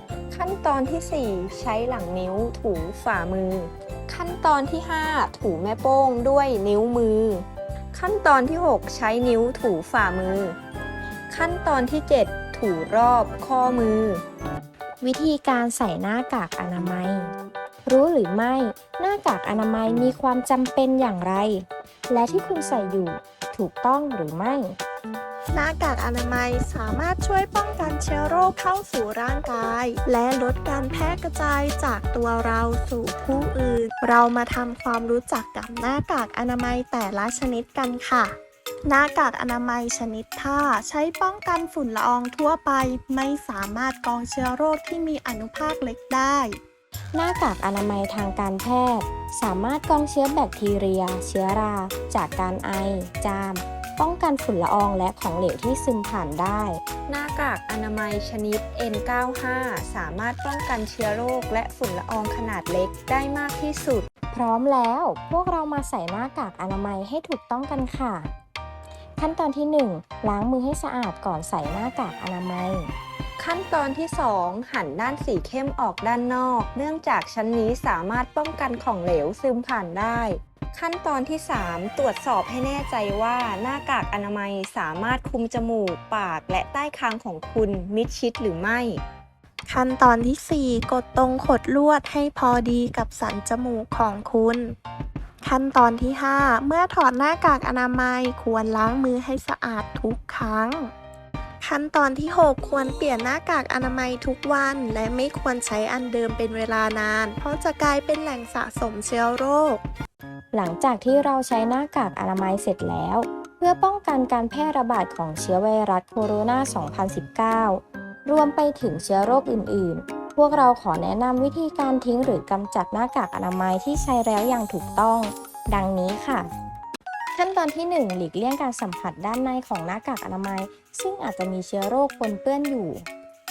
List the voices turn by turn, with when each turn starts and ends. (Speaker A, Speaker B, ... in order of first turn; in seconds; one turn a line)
Speaker A: 0.3-10.6
Speaker A: 11.3-14.2
Speaker B: 15.0-17.3
Speaker B: 17.9-24.8
Speaker C: 25.5-46.6
Speaker B: 47.1-56.8
Speaker A: 57.1-64.1
Speaker B: 64.3-68.3
Speaker B: 69.2-72.9
Speaker A: 73.4-89.0
Speaker C: 89.7-94.8
Speaker C: 95.4-100.9
Speaker C: 101.6-109.8
Speaker B: 110.5-126.5
Speaker B: 127.3-133.1